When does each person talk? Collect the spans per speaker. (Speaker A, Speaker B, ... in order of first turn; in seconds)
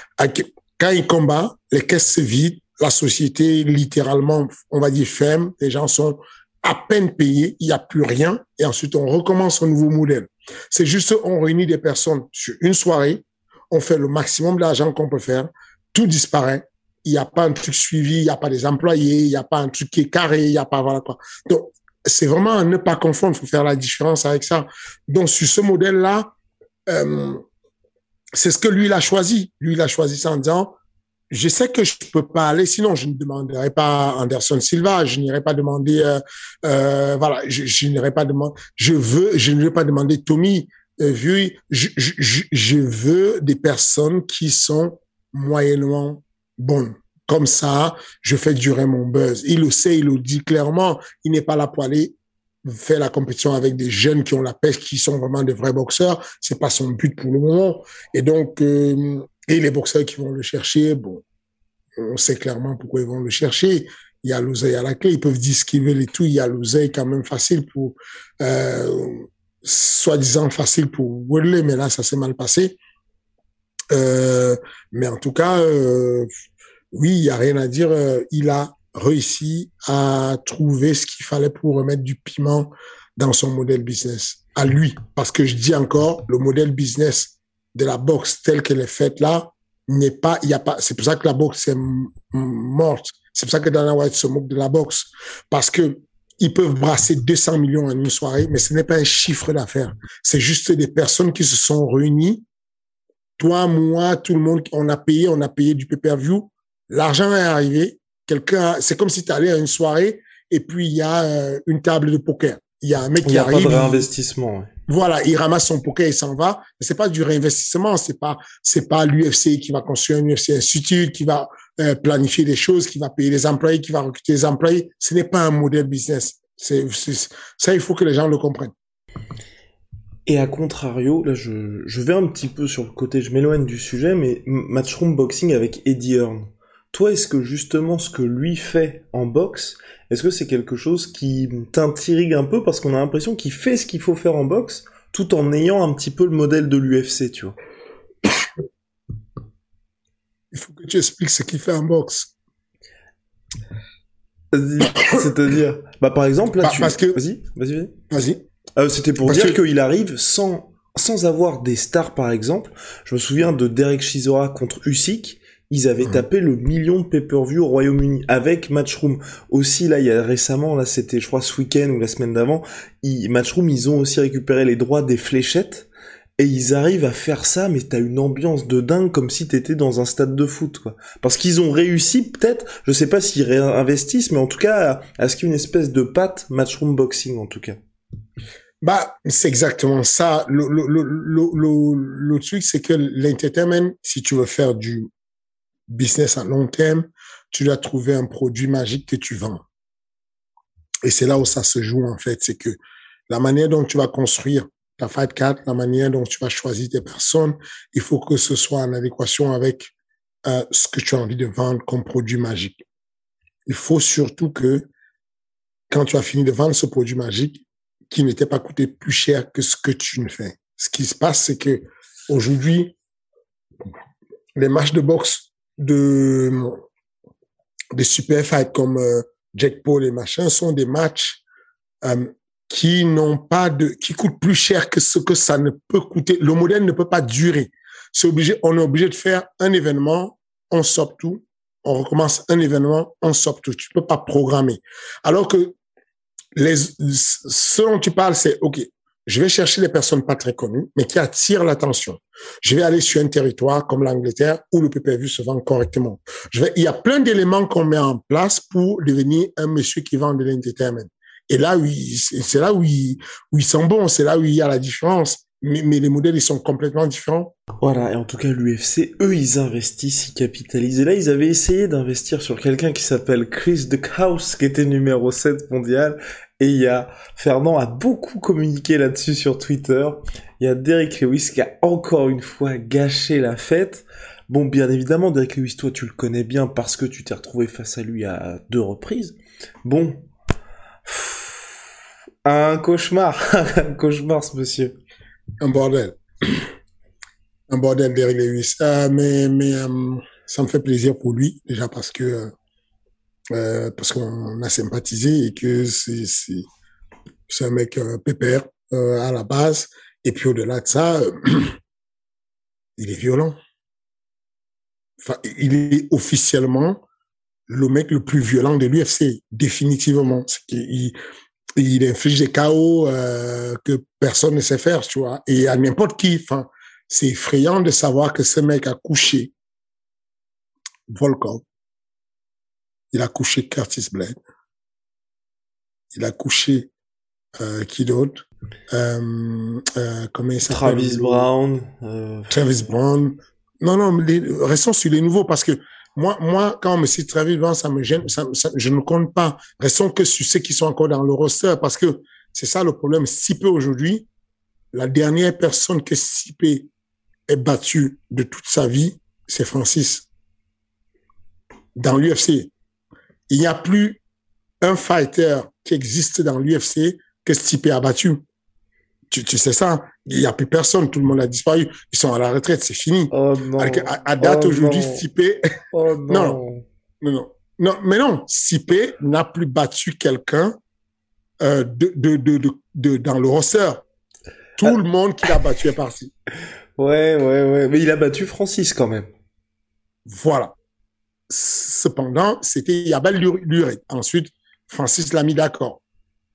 Speaker A: 0.2-26.3, 26.9-27.4, 28.3-30.7, 31.3-61.2, 62.0-72.8, 73.9-76.3, 76.9-102.4, 103.4-114.1, 114.9-128.7, 150.5-152.3, 156.6-157.2, 158.1-158.4, 159.2-159.6, 188.8-195.1, 195.9-199.6, 201.0-202.8, 203.3-209.9, 210.4-212.8, 213.7-214.9, 215.9-222.9, 224.6-226.8, 227.9-231.4, 232.0-245.7, 246.5-267.5, 295.6-296.7, 297.7-302.5, 303.5-306.7, 307.5-311.8, 313.0-313.6, 315.2-317.0, 317.7-321.1, 321.8-329.5, 331.1-331.6, 333.1-334.4, 336.1-336.9, 337.6-341.5, 342.5-354.2, 354.9-356.9, 357.5-360.3, 362.0-362.7, 363.5-364.2, 364.8-368.4, 369.3-375.6, 376.3-376.6, 377.2-380.8, 381.6-384.0, 384.8-386.3, 390.3-390.7, 391.5-396.0
Speaker B: 113.2-114.7, 130.2-147.6, 154.5-157.9, 158.8-187.8, 267.8-290.3, 291.1-291.7, 292.4-294.9, 340.6-342.8, 373.3-375.2, 375.9-376.8, 387.0-389.3